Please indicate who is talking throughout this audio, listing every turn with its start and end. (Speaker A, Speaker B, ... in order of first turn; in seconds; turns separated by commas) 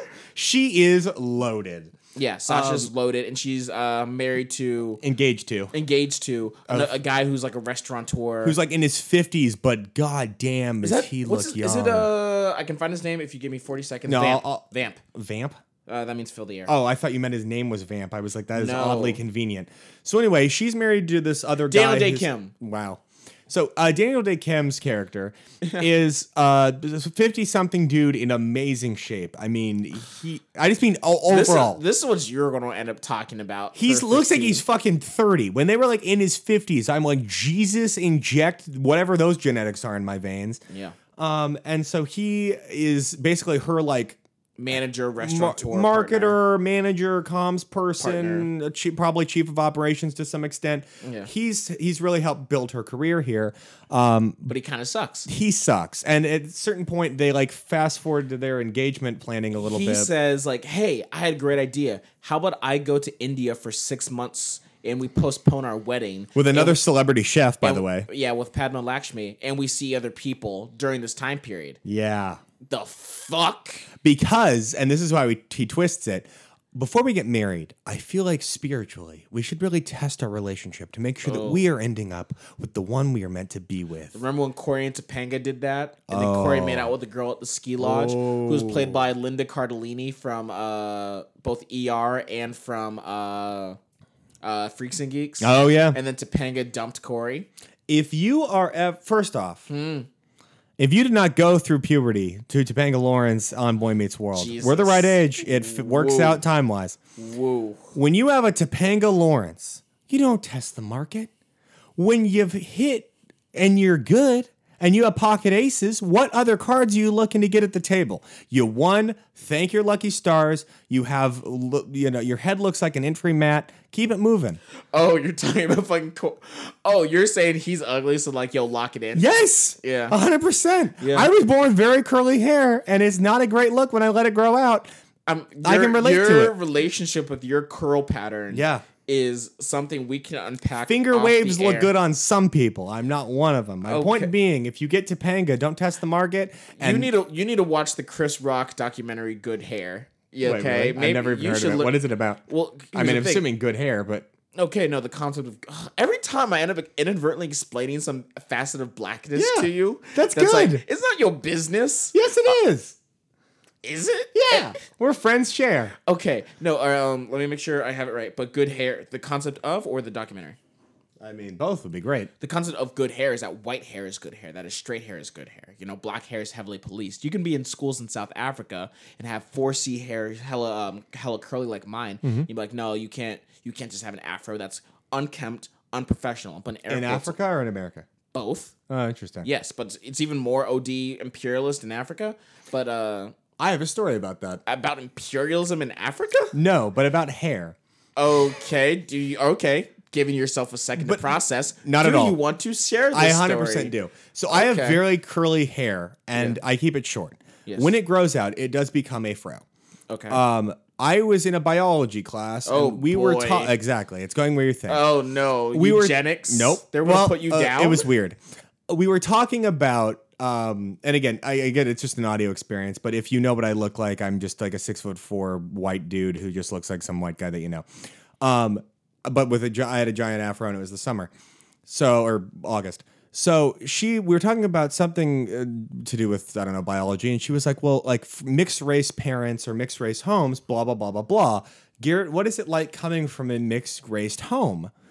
Speaker A: 0.3-1.9, Speaker B: 2.1-5.0, Speaker A: 2.5-2.9, Speaker A: 5.0-5.7, Speaker B: 5.7-8.6, Speaker A: 8.4-12.1, Speaker B: 10.8-15.0, Speaker A: 14.1-15.6, Speaker B: 15.9-16.7, Speaker A: 16.7-31.8, Speaker B: 18.5-19.2, Speaker B: 21.7-22.5, Speaker B: 31.3-34.6, Speaker A: 33.7-40.6, Speaker B: 40.7-41.0, Speaker A: 41.2-44.2, Speaker B: 44.6-46.4, Speaker A: 45.2-54.5, Speaker B: 48.0-48.5, Speaker B: 51.0-51.3, Speaker B: 54.5-55.3, Speaker A: 55.3-60.1, Speaker B: 59.6-66.8, Speaker A: 66.3-68.1, Speaker B: 67.6-71.8, Speaker A: 71.8-72.4, Speaker B: 72.6-73.9, Speaker A: 74.0-84.2, Speaker B: 81.2-81.6, Speaker B: 84.1-93.8, Speaker A: 86.1-86.9, Speaker A: 87.8-89.0, Speaker B: 94.4-97.5, Speaker A: 95.4-96.0, Speaker A: 97.9-99.7, Speaker B: 99.7-100.1, Speaker A: 100.8-107.0, Speaker B: 104.3-106.4, Speaker B: 107.2-107.9, Speaker A: 107.9-111.3, Speaker A: 112.0-124.6, Speaker B: 124.9-129.3, Speaker A: 129.1-134.9, Speaker B: 129.8-130.2, Speaker B: 131.0-131.3, Speaker B: 135.2-141.9, Speaker A: 135.6-136.5, Speaker A: 138.5-138.8, Speaker A: 140.9-147.1, Speaker B: 143.9-144.3, Speaker B: 146.8-153.4, Speaker A: 150.4-154.3, Speaker B: 154.5-162.5, Speaker A: 159.3-160.8, Speaker A: 162.1-162.9, Speaker B: 163.8-164.8, Speaker A: 164.3-165.9, Speaker B: 166.0-170.6, Speaker A: 171.2-172.3, Speaker B: 172.4-187.4, Speaker A: 182.2-182.5, Speaker A: 186.9-188.1, Speaker B: 188.3-188.7, Speaker A: 188.9-189.5, Speaker B: 189.4-193.3, Speaker A: 193.6-194.6, Speaker B: 194.7-196.5, Speaker A: 196.5-197.8, Speaker B: 198.2-203.9, Speaker A: 201.0-202.4, Speaker A: 203.1-209.6, Speaker B: 204.5-205.0, Speaker B: 206.3-206.6, Speaker B: 207.7-207.9, Speaker B: 210.1-210.4, Speaker A: 210.3-215.1, Speaker B: 212.7-213.7, Speaker B: 214.9-218.1, Speaker A: 215.7-227.9, Speaker A: 228.4-231.3, Speaker A: 231.9-244.9